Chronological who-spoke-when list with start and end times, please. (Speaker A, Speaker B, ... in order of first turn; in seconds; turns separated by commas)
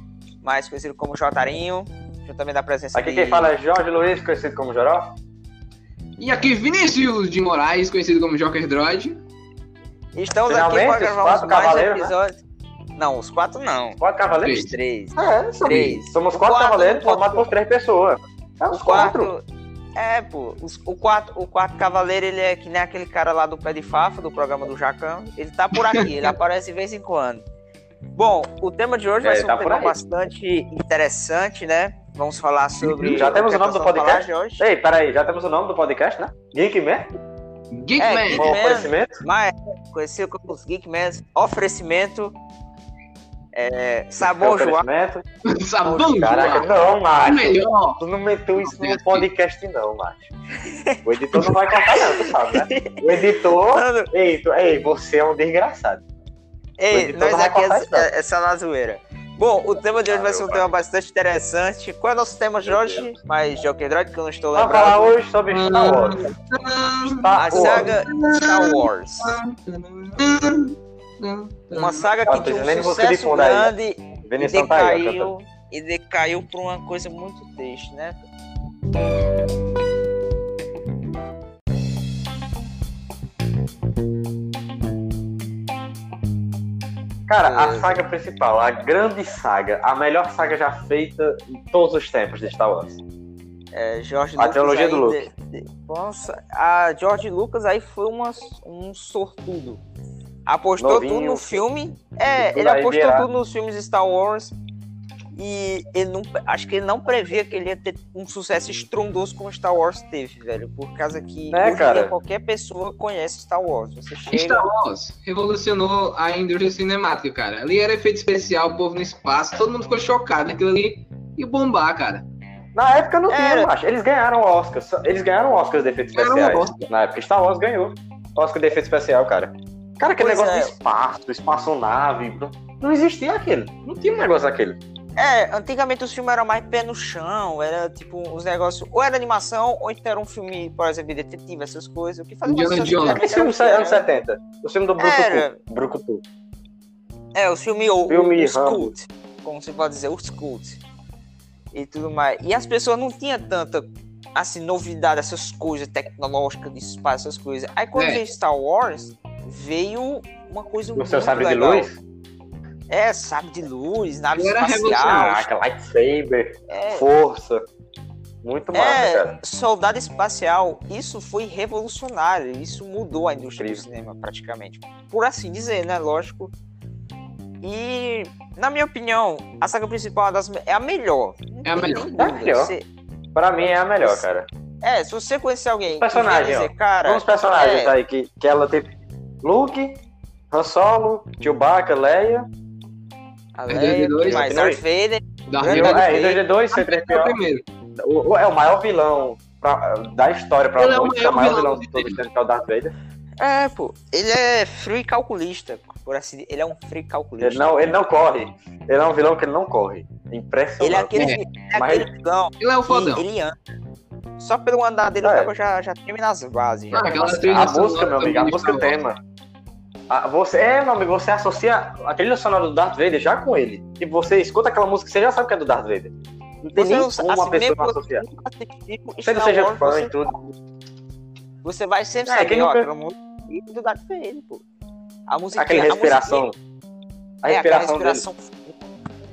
Speaker A: 0.4-3.5, Speaker B: 2.9-5.2, Speaker C: 6.2-9.2, Speaker A: 10.2-12.4, Speaker B: 10.5-12.2, Speaker A: 13.0-14.0, Speaker B: 14.0-19.3, Speaker C: 14.4-14.8, Speaker A: 14.6-17.5, Speaker C: 15.7-16.0, Speaker A: 18.7-19.4, Speaker A: 20.0-27.4, Speaker C: 25.8-26.0, Speaker A: 28.2-34.6, Speaker B: 29.2-30.0, Speaker C: 32.8-33.2, Speaker B: 33.1-37.1, Speaker C: 37.7-38.5, Speaker A: 38.0-42.4, Speaker B: 38.3-39.2, Speaker A: 43.5-44.9, Speaker B: 44.2-45.2, Speaker C: 45.5-46.7, Speaker A: 45.9-46.7, Speaker B: 46.2-50.3, Speaker C: 47.2-48.0, Speaker C: 48.6-49.3, Speaker A: 50.6-54.1, Speaker B: 51.0-56.0, Speaker A: 56.8-65.2, Speaker B: 56.9-58.1, Speaker B: 60.1-60.7, Speaker B: 62.6-63.1, Speaker B: 64.5-66.3, Speaker C: 65.5-72.1, Speaker B: 67.0-68.0, Speaker A: 67.4-69.4, Speaker A: 71.7-78.2, Speaker B: 72.3-73.7, Speaker B: 74.2-75.3, Speaker B: 87.3-93.0, Speaker A: 87.4-88.0, Speaker A: 93.7-99.8, Speaker B: 94.4-95.3, Speaker A: 100.5-104.5, Speaker B: 100.8-101.6, Speaker B: 102.4-103.3, Speaker A: 105.3-114.7, Speaker B: 111.5-112.2, Speaker C: 114.3-122.3, Speaker B: 122.8-134.8, Speaker A: 123.3-123.7, Speaker C: 126.2-126.9, Speaker A: 130.2-130.7, Speaker A: 135.2-144.1, Speaker C: 142.5-143.2, Speaker B: 143.1-146.2, Speaker A: 145.0-145.6, Speaker A: 147.3-150.8, Speaker B: 148.1-148.9, Speaker A: 151.7-161.9, Speaker C: 158.0-158.2, Speaker B: 161.0-162.0, Speaker A: 162.9-165.4, Speaker C: 164.3-165.4, Speaker B: 165.1-167.7, Speaker A: 166.7-167.1, Speaker B: 168.4-169.4, Speaker A: 168.7-176.5, Speaker B: 173.6-173.8, Speaker A: 177.6-182.8, Speaker C: 181.7-182.1, Speaker B: 182.2-182.7, Speaker B: 183.3-184.5, Speaker A: 184.8-187.9, Speaker B: 186.0-190.0, Speaker B: 190.5-192.5, Speaker A: 193.6-196.4, Speaker C: 193.7-194.5, Speaker B: 194.3-194.8, Speaker C: 195.5-196.1, Speaker B: 195.7-197.4, Speaker C: 196.7-197.6, Speaker B: 198.0-202.9, Speaker C: 200.8-202.2, Speaker A: 203.4-207.8, Speaker B: 207.4-212.1, Speaker A: 210.8-213.6, Speaker C: 212.6-213.2, Speaker A: 214.4-217.7, Speaker B: 215.2-215.5, Speaker C: 216.9-219.0, Speaker B: 217.5-219.2, Speaker B: 220.1-228.2, Speaker A: 226.8-230.1, Speaker B: 229.2-230.5, Speaker A: 231.6-234.6, Speaker B: 232.3-232.9, Speaker A: 235.3-236.5, Speaker B: 235.6-236.6, Speaker B: 237.4-238.2, Speaker A: 237.5-238.8